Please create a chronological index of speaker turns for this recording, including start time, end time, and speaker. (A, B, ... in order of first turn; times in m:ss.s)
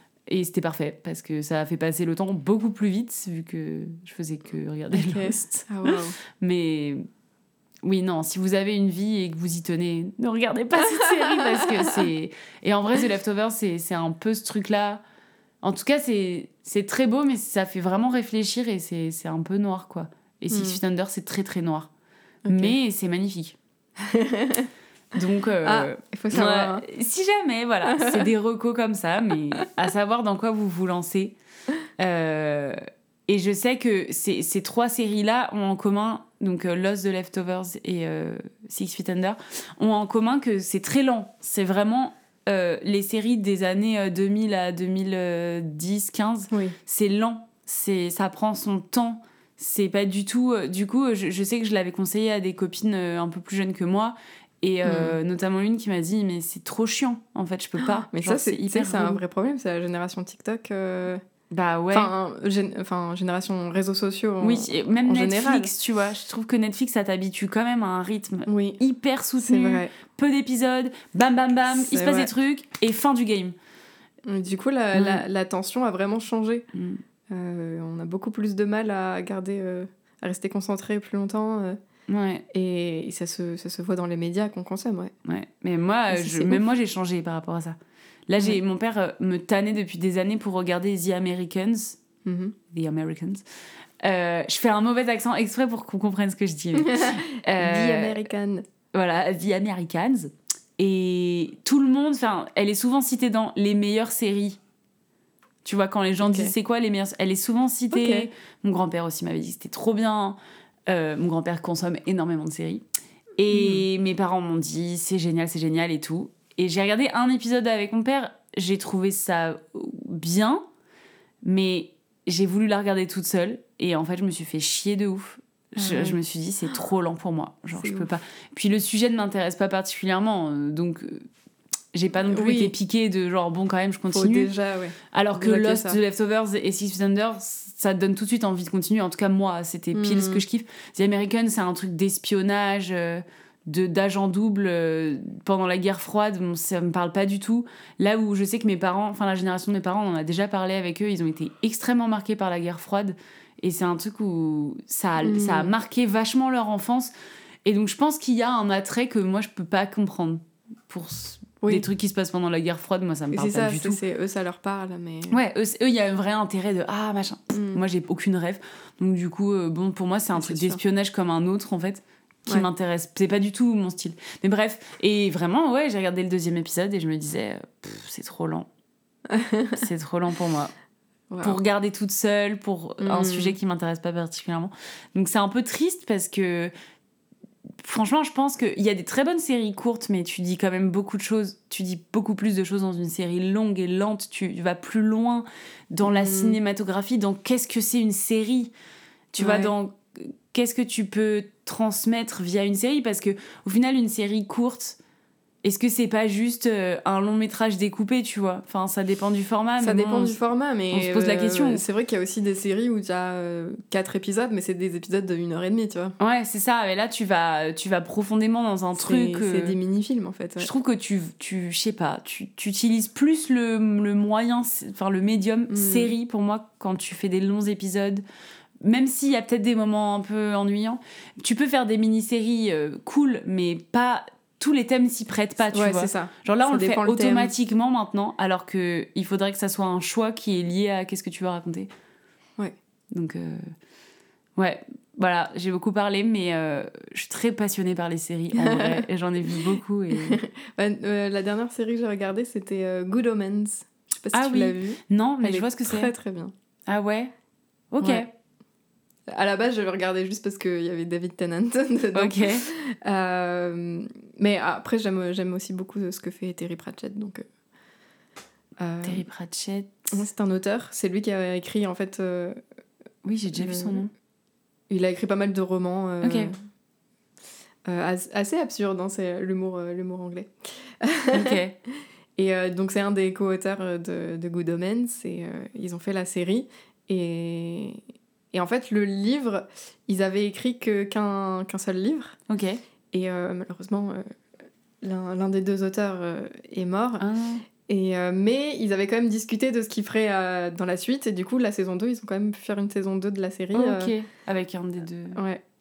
0:00.3-0:07.0 A
0:04.9-0:06.2 B
0:07.8-0:15.0 A
0:11.0-0:12.0 B
0:15.6-0:21.9 A
0:20.5-0:20.8 B
0:22.5-0:22.8 B
0:22.5-0:23.6 A
0:24.0-0:24.7 B
0:25.1-0:31.4 A
0:25.6-0:26.8 B
0:27.9-0:28.3 B
0:32.0-0:59.2 A
0:46.5-0:46.8 B
0:54.8-0:55.2 B
0:57.8-1:01.2 B
1:01.5-1:02.1 A
1:01.9-1:05.7 B
1:04.4-1:13.6 A
1:08.5-1:08.8 B
1:09.4-1:09.9 B
1:11.7-1:12.3 B
1:14.2-1:16.7 B
1:14.9-1:15.2 A
1:16.7-1:17.0 A
1:17.3-1:21.8 B
1:22.1-1:22.5 A
1:22.5-1:25.1 B
1:25.2-1:27.8 A
1:26.1-1:26.6 B
1:28.3-1:32.0 A
1:32.2-1:32.6 B
1:32.7-1:33.4 A
1:34.0-1:38.2 A
1:36.8-1:38.6 B
1:38.9-1:44.6 A
1:45.6-1:52.8 A
1:46.2-1:46.5 B
1:47.9-1:48.3 B
1:53.4-2:00.7 A
1:53.5-1:53.8 B
2:01.4-2:11.3 A
2:05.8-2:06.2 B
2:07.8-2:08.1 B
2:11.9-2:14.5 A
2:12.3-2:12.7 B
2:14.1-2:16.0 B
2:15.1-2:37.1 A
2:19.9-2:20.4 B
2:35.2-2:35.7 B
2:37.6-2:44.0 A
2:43.3-2:45.4 B
2:45.3-2:58.7 A
2:47.5-2:47.8 B
2:50.4-2:50.8 B
2:59.3-2:59.9 B
2:59.8-3:00.7 A
3:01.3-3:01.6 B
3:01.4-3:06.7 A
3:03.0-3:03.6 B
3:07.8-3:18.7 A
3:16.0-3:16.6 B
3:19.3-3:25.0 A
3:19.4-3:19.7 B
3:25.6-3:30.4 A
3:29.8-3:36.2 B
3:30.9-3:31.8 A
3:36.2-3:39.8 A
3:39.0-3:40.7 B
3:40.6-3:48.2 A
3:45.7-3:46.1 B
3:48.8-4:01.9 A
3:55.7-3:57.5 B
4:03.1-4:03.7 A
4:04.6-4:10.4 A
4:08.5-4:09.0 B
4:10.3-4:16.5 B
4:14.3-4:16.1 A
4:16.9-4:17.3 A
4:17.9-4:18.3 A
4:18.0-4:18.3 B
4:19.3-4:27.4 B
4:22.2-4:22.7 A
4:28.8-4:29.2 B
4:29.0-4:30.2 A
4:30.1-4:32.6 B
4:33.2-4:34.1 A
4:33.6-4:34.0 B
4:34.9-4:36.6 B
4:36.2-4:36.5 A
4:37.9-4:41.6 B
4:41.3-4:41.8 A
4:42.4-4:48.0 B
4:48.5-4:52.4 B
4:52.5-4:52.8 A
4:53.1-4:54.2 B
4:55.0-4:57.2 B
4:57.2-4:57.6 A
4:57.9-5:04.1 B
5:03.7-5:05.4 A
5:05.4-5:05.6 B